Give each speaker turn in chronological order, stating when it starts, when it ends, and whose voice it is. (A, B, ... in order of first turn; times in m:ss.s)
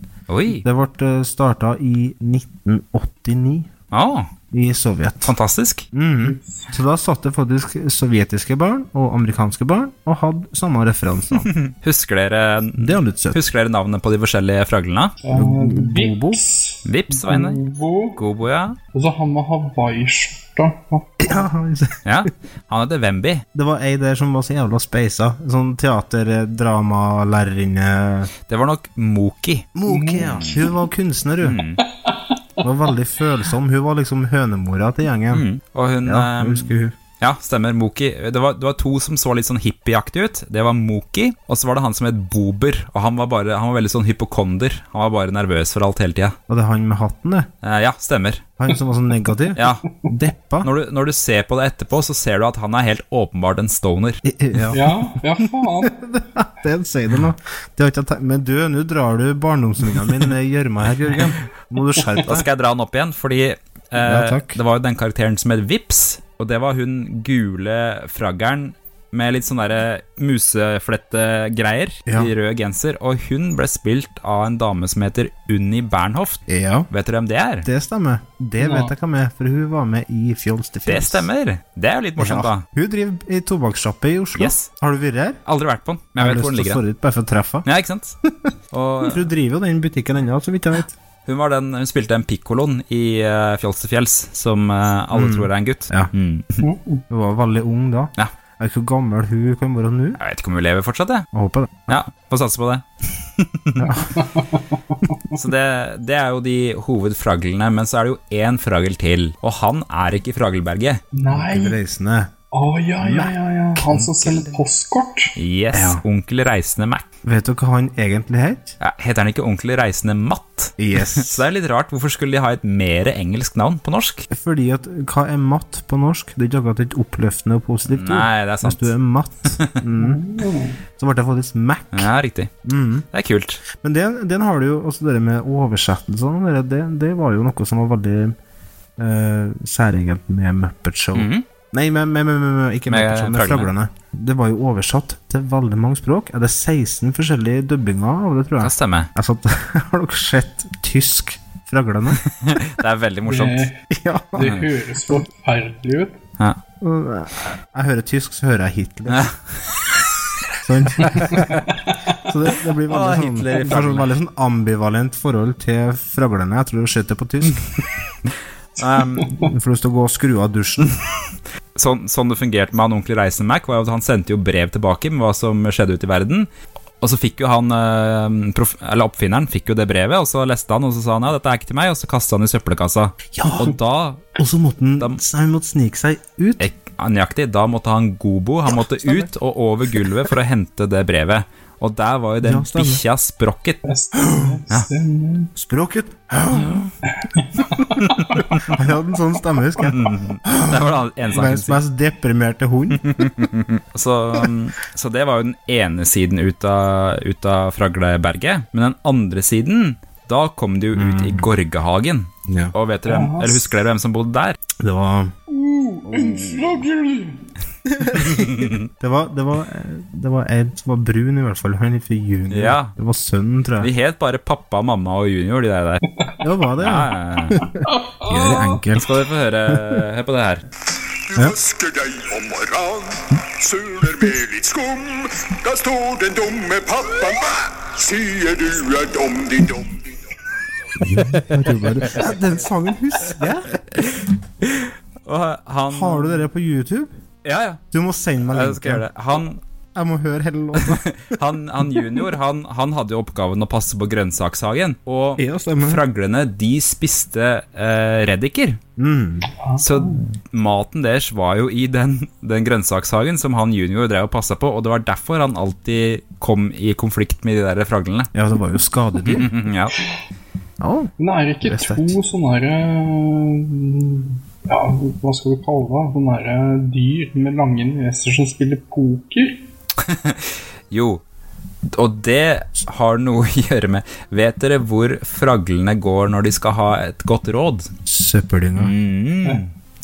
0:00.3-0:00.6 A
0:00.5-0:03.7 B
0:03.9-0:04.3 A
0:04.5-0:05.3 B
0:05.2-0:05.8 A
0:05.9-0:11.5 B
0:06.2-0:06.7 C
0:11.3-0:15.1 A
0:12.8-0:13.4 B
0:15.2-0:18.2 C
0:15.3-0:16.4 B
0:16.8-0:17.6 A
0:18.2-0:18.8 A
0:18.9-0:21.4 C
0:21.2-0:21.9 B
0:22.0-0:23.4 A
0:23.5-0:28.3 B
0:28.5-0:29.7 A
0:29.7-0:31.6 B
0:29.9-0:30.3 C
0:30.2-0:30.6 A
0:31.4-0:31.8 A
0:32.0-0:32.6 C
0:32.6-0:35.4 B
0:35.3-0:46.4 A
0:36.0-0:37.0 B
0:46.5-0:47.5 B
0:47.6-0:48.5 A
0:48.6-0:50.7 B
0:49.5-0:49.8 A
0:50.6-0:54.2 A
0:54.2-0:54.9 B
0:54.7-0:55.9 C
0:55.8-1:02.5 B
1:02.2-1:17.7 A
1:04.0-1:04.6 B
1:12.1-1:12.3 B
1:16.5-1:16.9 B
1:17.6-1:21.3 B
1:18.6-1:18.9 C
1:20.8-1:22.6 A
1:22.2-1:25.4 B
1:24.3-1:24.7 A
1:25.4-1:26.8 A
1:26.2-1:27.6 B
1:27.6-1:28.1 A
1:28.3-1:30.9 B
1:28.7-1:29.2 A
1:31.2-1:36.6 A
1:35.1-1:36.1 B
1:36.6-1:37.0 C
1:37.1-1:40.2 B
1:40.2-1:41.3 A
1:41.3-1:42.0 B
1:41.9-1:44.0 A
1:43.8-1:45.2 C
1:45.3-1:51.0 A
1:51.1-1:51.8 C
1:51.3-1:52.3 B
1:52.5-1:55.3 C
1:53.0-1:53.3 B
1:53.8-1:54.6 A
1:55.4-1:57.0 A
1:55.7-1:56.0 B
1:57.2-1:58.7 B
1:58.8-2:04.3 A
2:00.8-2:01.5 B
2:04.3-2:10.2 B
2:07.9-2:08.9 A
2:09.5-2:09.8 A
2:10.0-2:10.8 C
2:11.0-2:12.1 B
2:11.9-2:12.5 A
2:12.6-2:13.1 B
2:13.1-2:13.6 A
2:13.8-2:18.3 B
2:19.0-2:32.2 B
2:21.1-2:21.4 A
2:22.9-2:23.7 A
2:28.6-2:29.1 A
2:32.2-2:33.7 A
2:33.3-2:33.8 C
2:33.9-2:35.2 B
2:34.4-2:36.2 C
2:34.4-2:34.6 A
2:36.8-2:39.3 B
2:40.6-2:41.6 B
2:42.2-2:47.7 B
2:42.9-2:44.1 A
2:48.8-2:49.4 A
2:49.4-2:50.9 B
2:51.7-2:56.5 A
2:57.0-3:04.3 A
3:03.3-3:03.7 B
3:04.4-3:06.7 B
3:06.6-3:13.8 A
3:09.0-3:09.2 B
3:12.4-3:13.0 B
3:13.8-3:15.5 C
3:14.1-3:14.6 B
3:15.6-3:16.9 B
3:16.5-3:16.9 A
3:17.2-3:18.4 C
3:18.0-3:18.7 A
3:18.6-3:23.2 B
3:19.8-3:21.8 A
3:23.0-3:34.6 A
3:30.9-3:31.5 B
3:32.5-3:32.7 B
3:33.0-3:33.7 C
3:34.8-3:35.3 B
3:35.5-3:37.4 C
3:36.0-3:36.8 B
3:37.8-3:43.9 B
3:38.2-3:38.9 A
3:42.5-3:42.9 A
3:43.8-3:46.0 A
3:46.4-3:50.0 B
3:46.8-3:47.6 A
3:47.8-3:48.8 C
3:49.0-3:50.6 A
3:51.3-4:00.0 D
3:51.3-3:51.6 B
4:01.0-4:03.7 B
4:01.1-4:01.4 A
4:03.9-4:06.5 A
4:05.9-4:07.1 B
4:07.4-4:07.8 A
4:07.9-4:09.0 B
4:08.4-4:09.6 A
4:09.9-4:11.4 B
4:10.8-4:18.8 A
4:15.4-4:16.0 B
4:19.0-4:19.5 B
4:19.6-4:20.2 C
4:19.8-4:28.3 A
4:28.3-4:29.5 B
4:29.2-4:29.9 A
4:30.8-4:32.2 B
4:31.2-4:39.6 C
4:40.0-4:41.2 A
4:41.9-4:47.9 A
4:48.0-4:48.9 B
4:48.8-4:49.7 A